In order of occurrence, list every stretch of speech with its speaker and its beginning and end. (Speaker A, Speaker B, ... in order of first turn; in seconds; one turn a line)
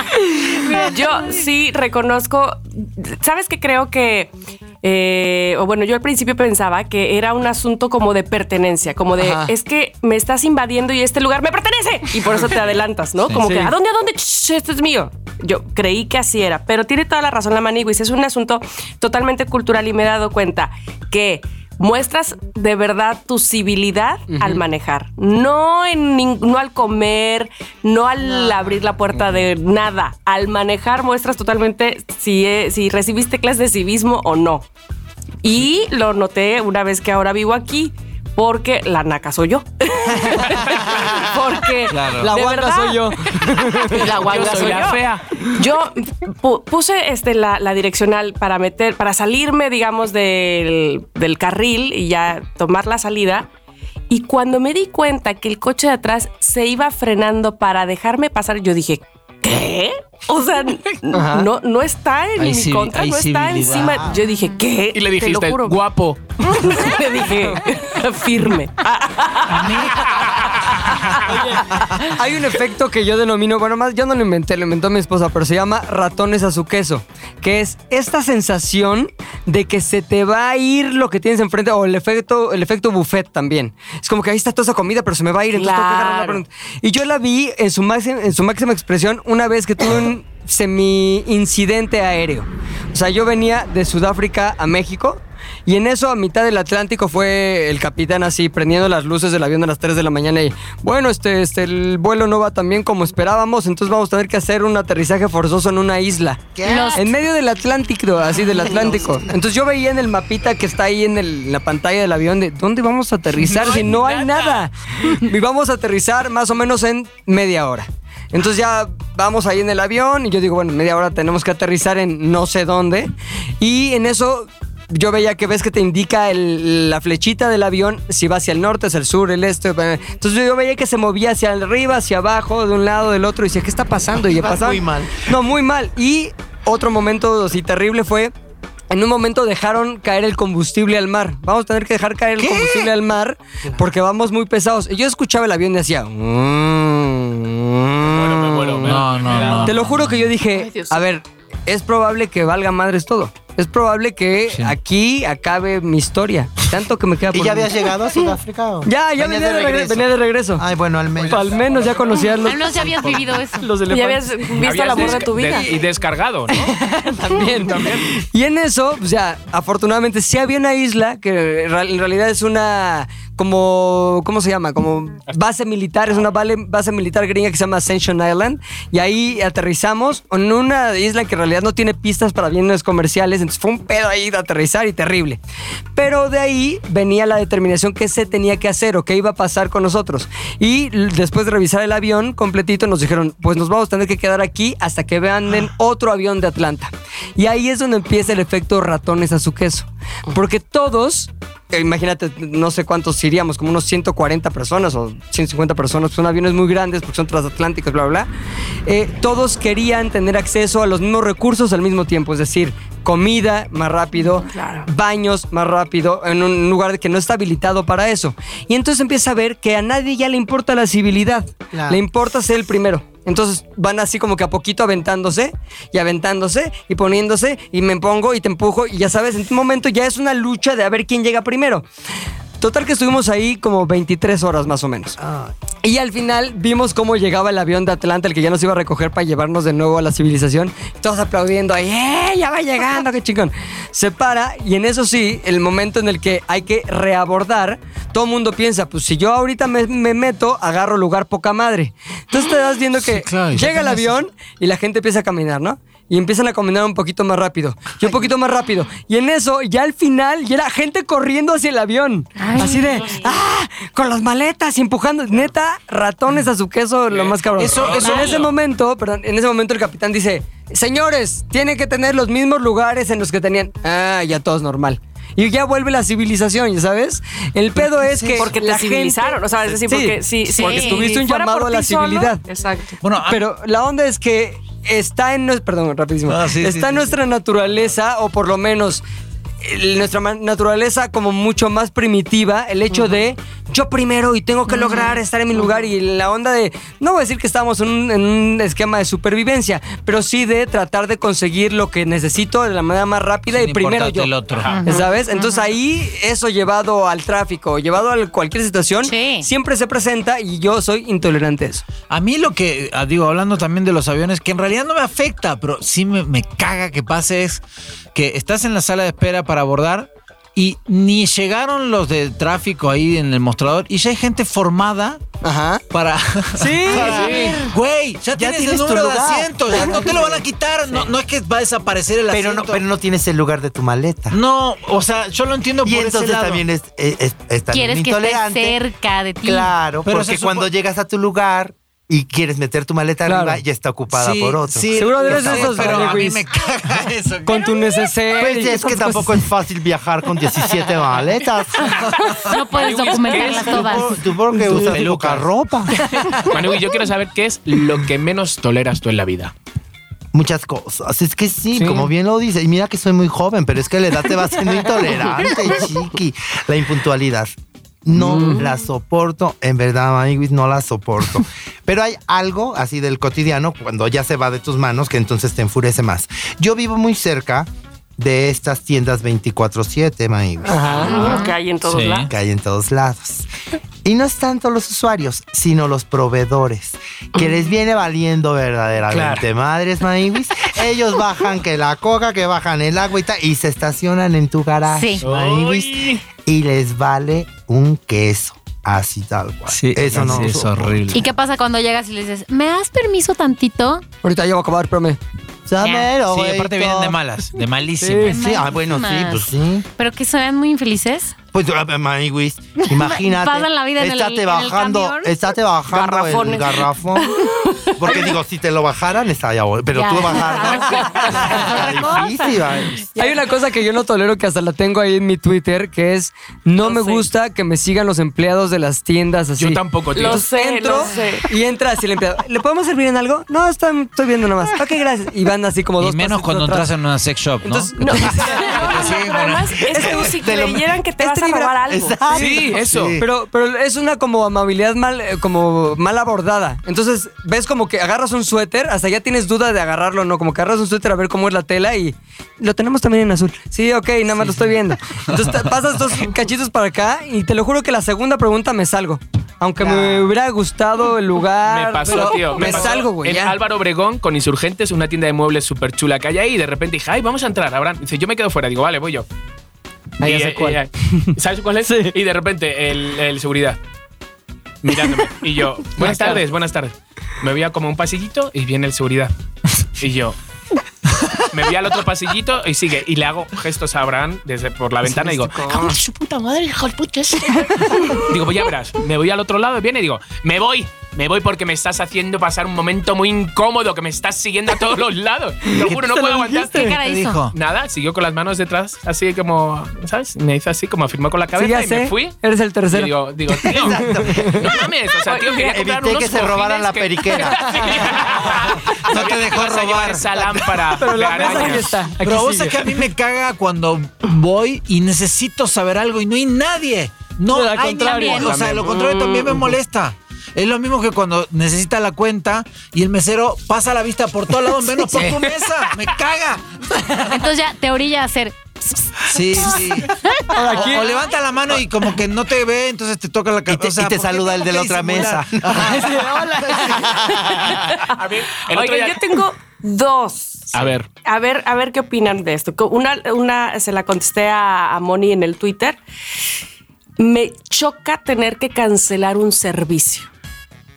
Speaker A: 0.5-34.7
Speaker B: 9.2-9.5
Speaker C: 13.2-13.5
Speaker B: 13.4-13.7
Speaker B: 24.3-24.6
Speaker B: 28.2-28.6
Speaker A: 35.4-53.5
Speaker C: 40.3-40.9
Speaker C: 41.9-42.3
Speaker B: 42.2-44.1
Speaker D: 43.9-45.2
Speaker A: 54.1-65.8
Speaker B: 61.1-61.5
Speaker C: 62.4-64.0
Speaker E: 63.6-64.2
Speaker D: 64.9-66.2
Speaker A: 66.4-70.2
Speaker C: 69.5-70.1
Speaker D: 69.9-71.3
Speaker B: 71.2-138.3
Speaker A: 85.5-86.4
Speaker E: 106.5-107.1
Speaker F: 106.6-107.0
Speaker E: 108.5-109.4
Speaker D: 113.4-114.7
Speaker E: 134.2-135.3
Speaker B: 138.9-157.9
Speaker C: 142.4-142.9
Speaker D: 148.0-149.8
Speaker C: 148.8-150.3
Speaker A: 150.5-151.0
Speaker C: 154.5-154.8
Speaker E: 157.3-161.6
Speaker B: 158.8-160.6
Speaker D: 161.2-162.4
Speaker B: 161.2-165.7
Speaker F: 162.4-163.7
Speaker A: 163.9-165.8
Speaker D: 164.6-166.8
Speaker B: 166.5-185.4
Speaker D: 167.3-168.1
Speaker B: 185.9-208.3
Speaker B: 208.8-231.9
Speaker A: 214.4-214.9
Speaker E: 221.7-222.0
Speaker B: 232.6-235.2
Speaker E: 235.2-235.5
Speaker B: 235.8-282.4
Speaker C: 253.0-254.2
Speaker E: 258.0-258.3
Speaker F: 262.4-263.3
Speaker D: 267.1-268.5
Speaker C: 267.6-268.5
Speaker C: 277.8-278.5
Speaker A: 278.3-283.0
Speaker F: 280.5-281.0
Speaker C: 283.0-283.4
Speaker B: 283.2-289.0
Speaker C: 286.2-287.1
Speaker B: 289.6-304.3
Speaker F: 294.7-295.2
Speaker C: 303.5-304.7
Speaker D: 304.5-304.8
Speaker F: 304.6-305.7
Speaker B: 304.8-311.9
Speaker F: 309.0-309.5
Speaker C: 312.1-317.6
Speaker C: 318.1-325.2
Speaker B: 325.4-325.8
Speaker C: 325.9-332.8
Speaker B: 326.6-327.6
Speaker E: 326.9-327.6
Speaker E: 328.4-330.4
Speaker B: 329.7-330.4
Speaker E: 332.3-334.4
Speaker C: 334.3-336.6
Speaker E: 335.8-338.8
Speaker F: 337.7-339.7
Speaker E: 339.4-346.3
Speaker C: 340.0-340.7
Speaker B: 343.2-343.6
Speaker C: 344.1-347.7
Speaker B: 344.9-346.4
Speaker B: 347.4-349.4
Speaker E: 348.4-352.1
Speaker C: 352.1-352.6
Speaker F: 352.3-354.1
Speaker D: 352.7-353.9
Speaker E: 353.4-356.0
Speaker C: 354.6-356.5
Speaker D: 356.5-359.5
Speaker E: 360.3-381.4
Speaker B: 361.8-362.1
Speaker B: 368.1-368.6
Speaker A: 368.3-368.6
Speaker B: 380.6-381.1
Speaker A: 380.9-382.3
Speaker F: 381.1-381.5
Speaker C: 381.8-382.3
Speaker E: 382.2-383.5
Speaker E: 384.0-401.2
Speaker D: 389.1-389.4
Speaker F: 394.9-395.2
Speaker D: 395.2-396.2
Speaker C: 399.7-401.2
Speaker F: 401.1-404.0
Speaker B: 404.2-405.2
Speaker E: 405.6-407.1
Speaker F: 405.8-406.1
Speaker C: 406.3-408.4
Speaker B: 408.0-408.4
Speaker F: 408.1-411.3
Speaker E: 408.3-409.8
Speaker E: 411.5-423.1
Speaker F: 412.9-415.3
Speaker A: 415.9-418.4
Speaker F: 419.9-423.3
Speaker A: 420.8-421.3
Speaker B: 423.1-436.9
Speaker A: 426.8-427.3
Speaker D: 429.6-430.4
Speaker A: 430.1-431.5
Speaker C: 436.0-439.9
Speaker B: 437.6-438.8
Speaker A: 438.0-442.2
Speaker E: 439.9-440.9
Speaker B: 439.9-440.2
Speaker B: 441.2-463.6
Speaker E: 441.9-443.3
Speaker D: 442.4-443.2
Speaker C: 454.4-454.7
Speaker C: 455.3-455.8
Speaker E: 459.8-460.3
Speaker D: 461.6-469.2
Speaker C: 462.0-463.0
Speaker B: 470.2-471.3
Speaker D: 470.2-473.8
Speaker B: 471.9-472.1
Speaker D: 474.8-479.3
Speaker B: 476.0-476.4
Speaker D: 480.0-480.3
Speaker C: 481.1-481.4
Speaker D: 481.5-496.9
Speaker B: 485.0-486.0
Speaker B: 495.7-497.0
Speaker F: 496.5-497.4
Speaker C: 497.1-497.5
Speaker D: 497.5-502.4
Speaker B: 501.6-504.7
Speaker D: 502.9-511.9
Speaker E: 503.7-504.8
Speaker A: 505.2-505.8
Speaker E: 505.7-508.6
Speaker B: 507.6-508.0
Speaker C: 508.8-510.3
Speaker E: 509.1-509.5
Speaker E: 510.3-510.8
Speaker B: 510.9-513.0
Speaker C: 511.4-527.5
Speaker B: 517.5-518.7
Speaker F: 517.9-518.5
Speaker D: 518.3-518.9
Speaker A: 518.7-519.6
Speaker B: 524.9-525.7
Speaker F: 527.2-530.9
Speaker C: 529.2-536.0
Speaker B: 530.5-531.2
Speaker E: 533.7-536.1
Speaker B: 535.6-537.5
Speaker E: 536.6-538.0
Speaker A: 537.7-538.2
Speaker D: 538.0-539.3
Speaker A: 538.7-546.0
Speaker D: 540.7-541.1
Speaker A: 547.2-550.3